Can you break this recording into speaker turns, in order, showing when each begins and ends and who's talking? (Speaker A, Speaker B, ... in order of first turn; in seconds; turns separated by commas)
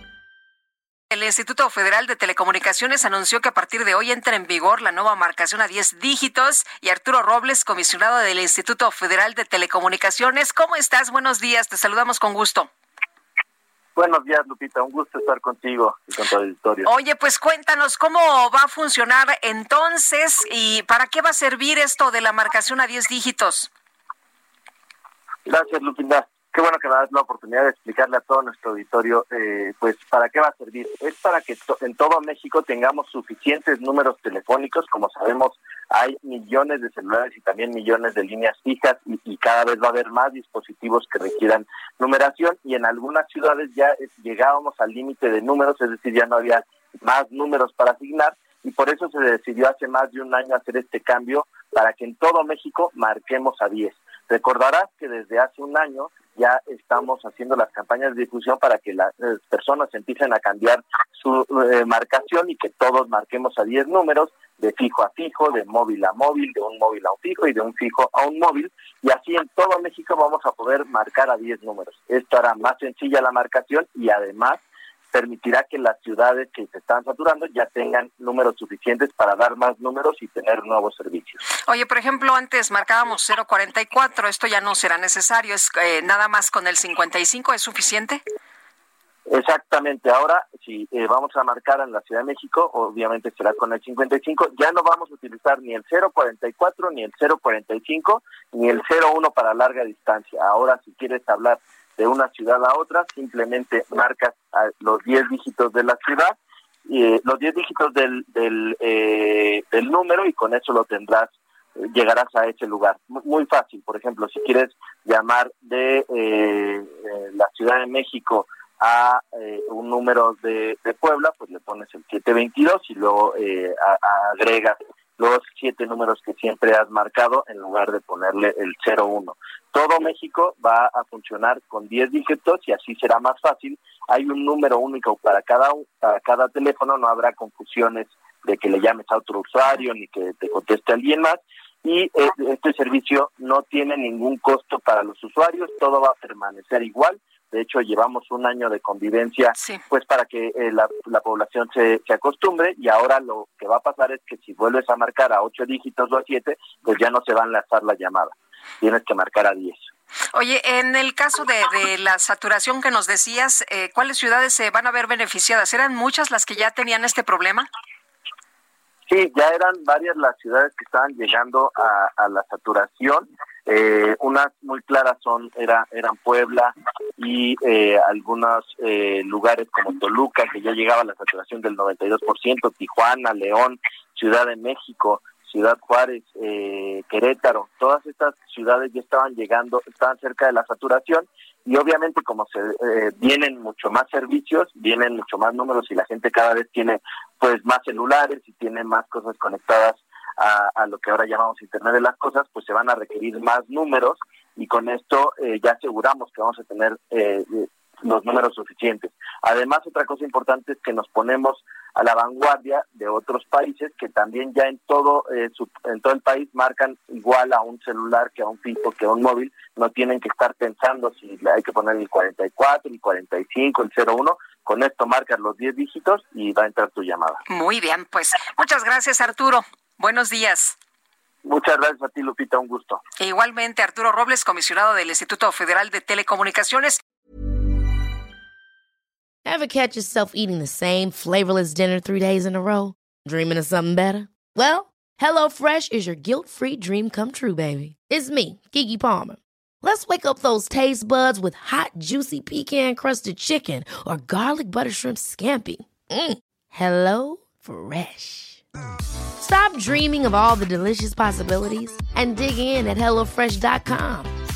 Speaker A: 1.1-12.7, Speaker B: 13.9-16.9, Speaker A: 16.9-23.7, Speaker B: 25.4-81.4, Speaker A: 81.7-88.2, Speaker B: 89.3-106.3, Speaker B: 106.8-159.8, Speaker A: 160.3-167.7, Speaker B: 169.1-227.4, Speaker A: 227.5-230.7, Speaker B: 231.4-233.0, Speaker A: 233.2-237.0, Speaker C: 239.4-258.6, Speaker C: 259.4-264.3